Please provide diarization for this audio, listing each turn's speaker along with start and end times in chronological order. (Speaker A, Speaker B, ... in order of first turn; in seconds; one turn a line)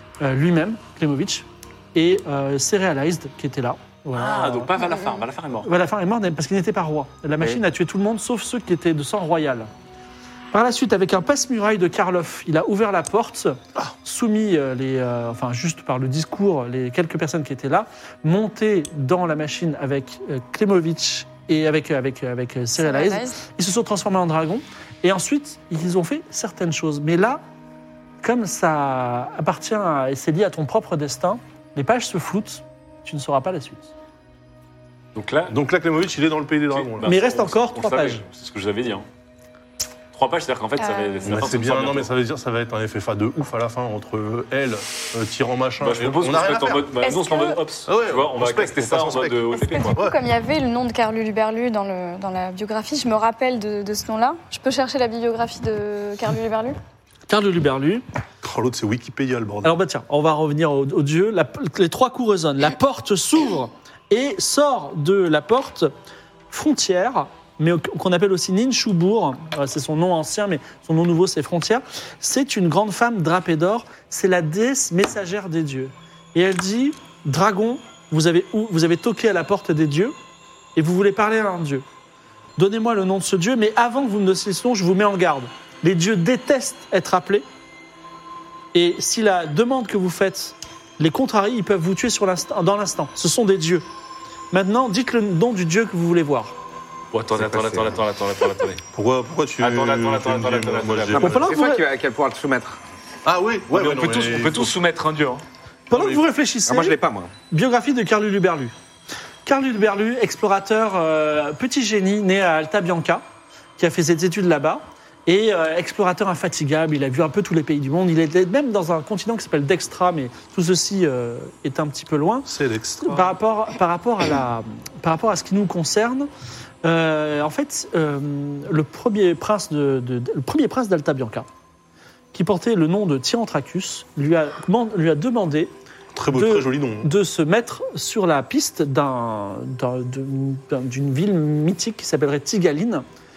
Speaker A: 0.2-4.7
Speaker B: 4.2-5.7
Speaker A: 5.7-9.7
Speaker A: 10.5-27.4
Speaker C: 22.8-23.4
Speaker A: 28.2-33.9
Speaker B: 35.1-35.6
Speaker D: 35.5-37.1
Speaker B: 36.7-39.1
Speaker A: 37.0-38.2
Speaker B: 40.1-42.1
Speaker C: 40.8-41.4
Speaker D: 41.2-46.9
Speaker B: 45.8-50.0
Speaker C: 47.0-47.6
Speaker D: 47.9-49.4
Speaker C: 49.5-56.8
Speaker A: 57.3-58.0
Speaker D: 58.4-59.7
Speaker A: 59.6-65.9
Speaker A: 66.5-80.2
Speaker A: 80.8-81.8
Speaker A: 82.6-87.5
Speaker A: 88.7-93.8
Speaker A: 94.5-96.5
Speaker B: 97.1-98.8
Speaker D: 98.9-101.5
Speaker B: 99.6-101.4
Speaker E: 101.1-102.8
Speaker A: 101.2-101.8
Speaker D: 103.2-104.7
Speaker B: 103.7-105.4
Speaker A: 105.9-107.0
Speaker D: 105.9-106.3
Speaker E: 106.7-107.3
Speaker A: 107.5-108.7
Speaker A: 109.5-113.2
Speaker A: 113.8-122.5
Speaker D: 122.5-123.3
Speaker A: 123.0-126.3
Speaker A: 126.8-131.5
Speaker A: 132.3-135.7
Speaker D: 136.1-137.1
Speaker A: 136.3-143.0